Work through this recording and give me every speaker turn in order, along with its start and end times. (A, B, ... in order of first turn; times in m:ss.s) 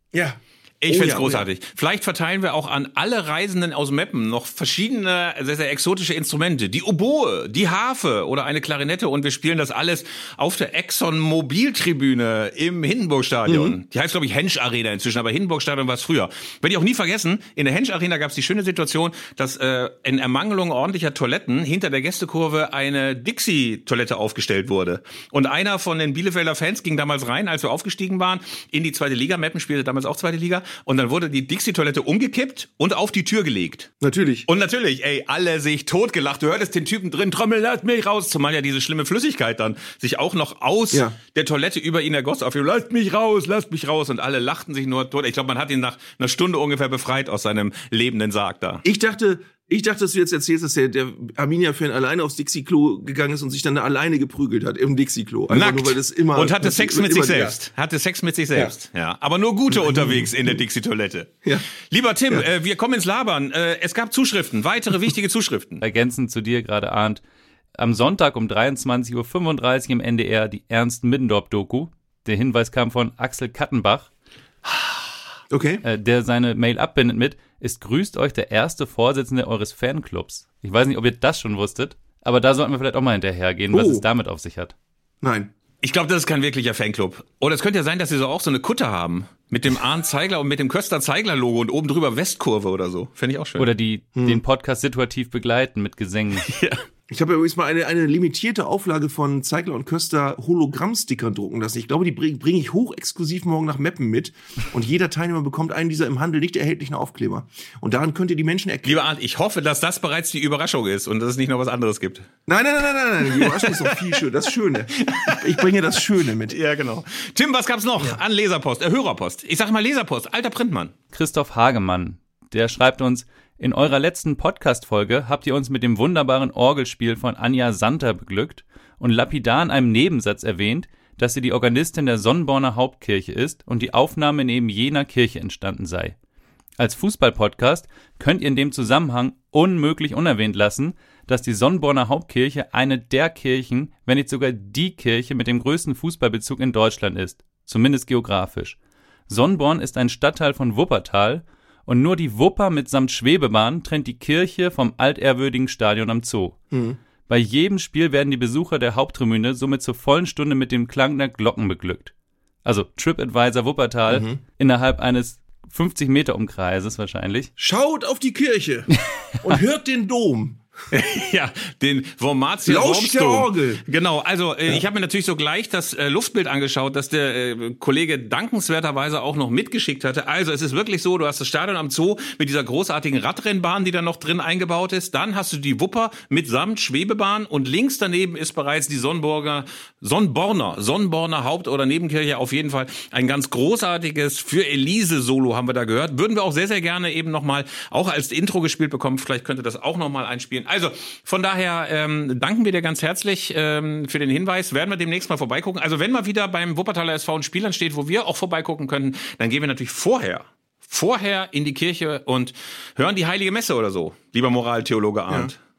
0:00.1-0:01.5 A
0:00.8-0:33.9 B
0:13.4-0:13.7 A
0:34.0-0:34.4 A
0:34.4-0:48.8 B
0:48.8-0:57.6 A
0:55.5-1:05.8 B
0:59.7-1:00.5 A
1:05.8-1:07.2 C
1:07.8-1:14.1 C
1:15.5-1:15.8 A
1:15.8-1:24.7 C
1:23.7-1:24.0 A
1:25.2-1:25.5 A
1:25.8-1:33.7 B
1:33.6-1:36.5 C
1:34.1-1:34.4 A
1:36.5-1:36.8 B
1:37.1-1:49.0 A
1:48.8-1:52.3 B
1:52.5-1:56.6 A
1:53.3-1:54.2 B
1:55.0-1:55.7 B
1:56.5-2:00.9 B
2:01.1-2:16.2 C
2:16.8-2:28.8 C
2:29.3-2:36.6 C
2:36.7-2:37.0 A
2:37.3-2:42.1 C
2:42.6-2:47.5 C
2:44.1-2:44.4 A
2:47.6-2:50.6 A
2:50.9-3:35.6 B
2:52.6-2:53.8 A